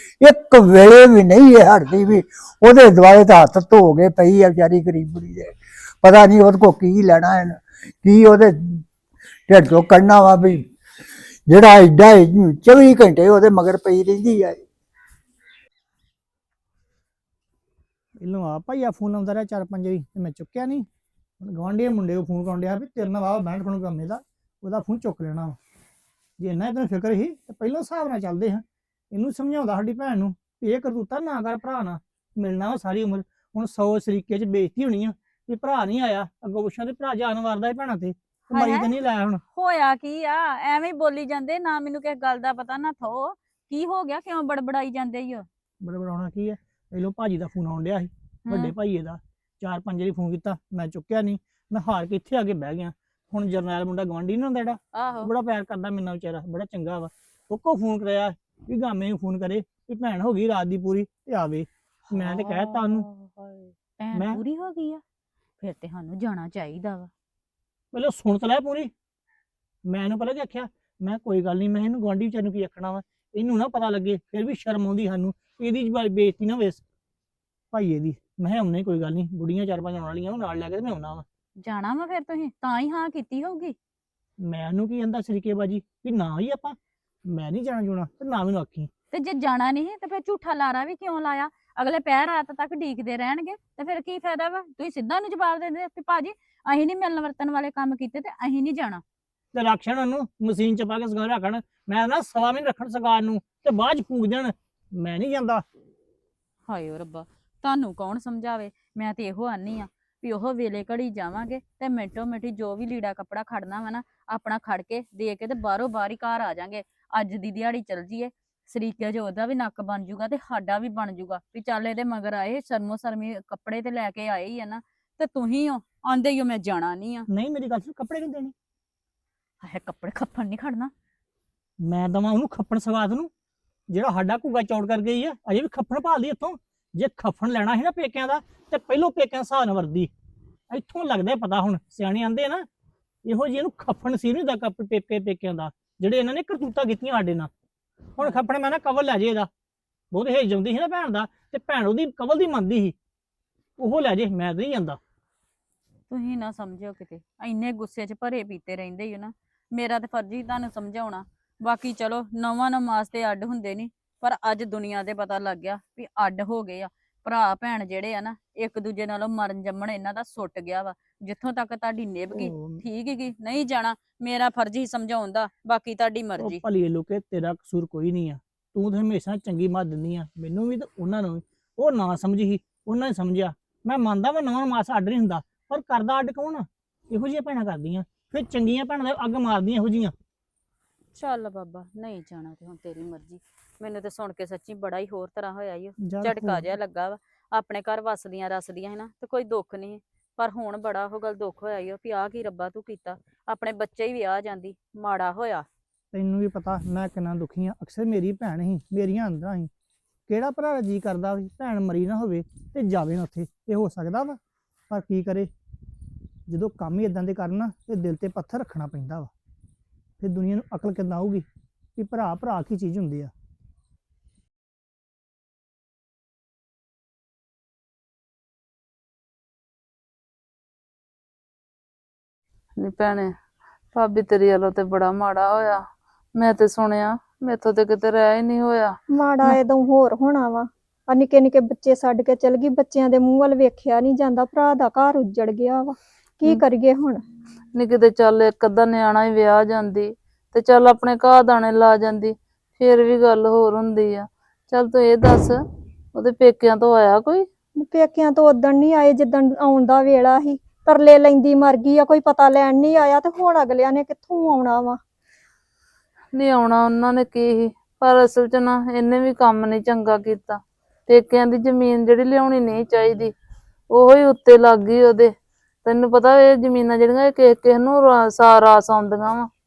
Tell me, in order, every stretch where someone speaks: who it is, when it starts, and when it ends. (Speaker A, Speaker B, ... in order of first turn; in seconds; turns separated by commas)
Speaker A: 0.2-8.8, Speaker A: 9.5-10.6, Speaker A: 11.5-14.6, Speaker B: 18.2-20.9, Speaker B: 21.4-25.6, Speaker B: 26.4-39.4, Speaker C: 38.5-38.9, Speaker C: 39.5-45.5, Speaker B: 45.8-63.1, Speaker C: 48.5-48.7, Speaker C: 54.9-55.3, Speaker C: 62.1-65.0, Speaker B: 64.1-64.4, Speaker C: 65.6-67.1, Speaker B: 67.9-68.9, Speaker B: 69.9-76.8, Speaker B: 77.7-81.2, Speaker C: 81.6-83.7, Speaker B: 84.4-86.8, Speaker B: 87.3-88.9, Speaker C: 89.1-99.0, Speaker B: 99.5-105.6, Speaker C: 106.7-127.3, Speaker B: 127.3-128.5, Speaker C: 129.6-130.9, Speaker B: 131.8-133.3, Speaker B: 133.9-140.1, Speaker B: 140.7-142.6, Speaker B: 143.2-147.5, Speaker B: 148.2-149.5, Speaker B: 150.1-152.9, Speaker B: 153.8-155.0, Speaker C: 156.1-176.6, Speaker B: 172.3-172.8, Speaker B: 176.4-190.1, Speaker C: 191.1-205.7, Speaker B: 196.0-196.7, Speaker B: 206.1-209.7, Speaker B: 210.3-214.4, Speaker B: 214.9-215.5, Speaker B: 216.5-219.3, Speaker B: 220.2-223.3, Speaker D: 232.8-233.3, Speaker D: 233.9-235.8, Speaker D: 236.3-239.6, Speaker E: 239.1-247.2, Speaker D: 247.7-255.6, Speaker D: 256.1-257.4, Speaker E: 257.8-265.0, Speaker D: 266.3-273.3, Speaker D: 273.9-275.3, Speaker D: 275.8-279.5